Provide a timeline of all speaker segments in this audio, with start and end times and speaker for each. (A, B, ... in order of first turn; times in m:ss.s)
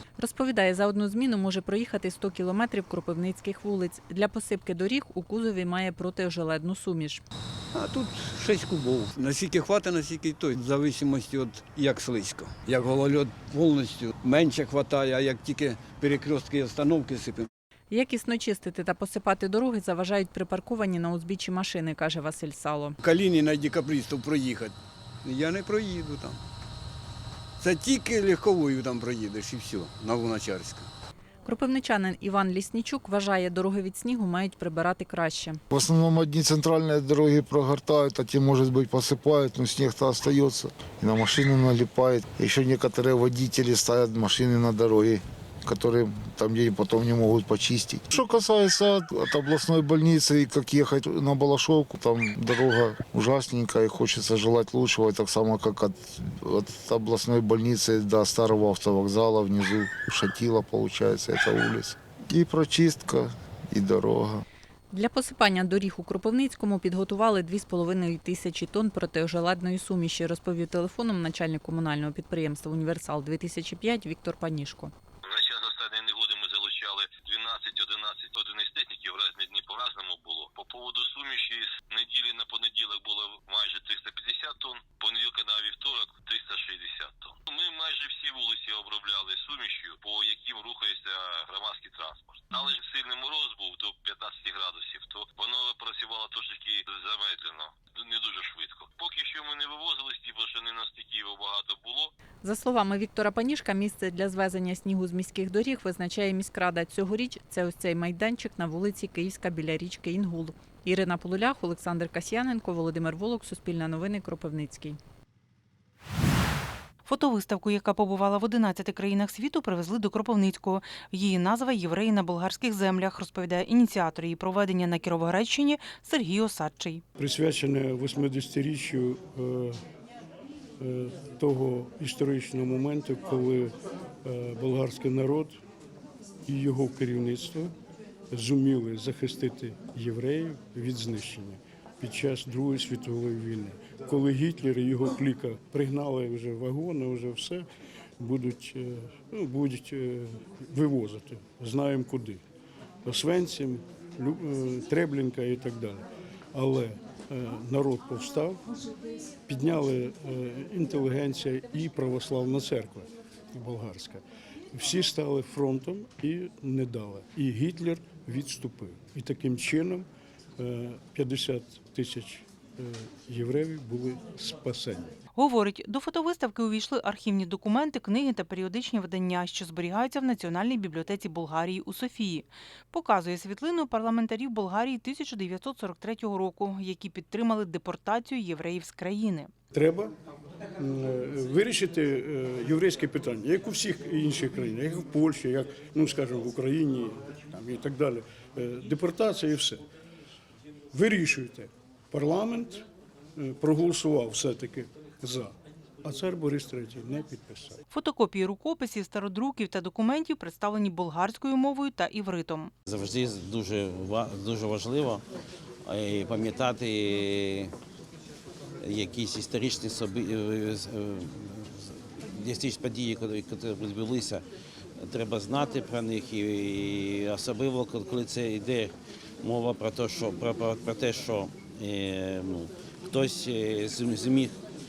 0:00.2-0:07.2 A
0:07.7-0:17.5 B
0:17.9-0:23.0 A
0:23.0-0:26.4 B
0:27.6-0:30.9 B
0:31.4-0:35.6 A
0:35.7-1:04.4 C
1:04.9-1:14.9 A
1:15.2-1:42.1 D
1:42.4-1:55.0 A
1:57.0-2:07.0 E
2:07.2-2:09.8 F
2:10.8-2:13.7 F
2:14.2-2:15.6 F
2:16.5-2:17.7 F
2:18.3-2:27.7 F
2:28.2-2:32.4 F
2:33.0-2:38.6 F
2:39.5-2:44.2 F
2:44.7-2:50.1 F
2:50.6-2:55.1 F
2:55.4-3:09.5 E
3:09.7-3:10.1 F
3:10.8-3:19.8 F
3:20.9-3:22.8 F
3:23.4-3:25.5 F
3:26.0-3:27.8 F
3:27.9-3:32.7 E
3:32.9-3:35.2 G
3:35.8-3:37.7 G
3:38.8-3:44.4 G
3:45.0-3:54.6 G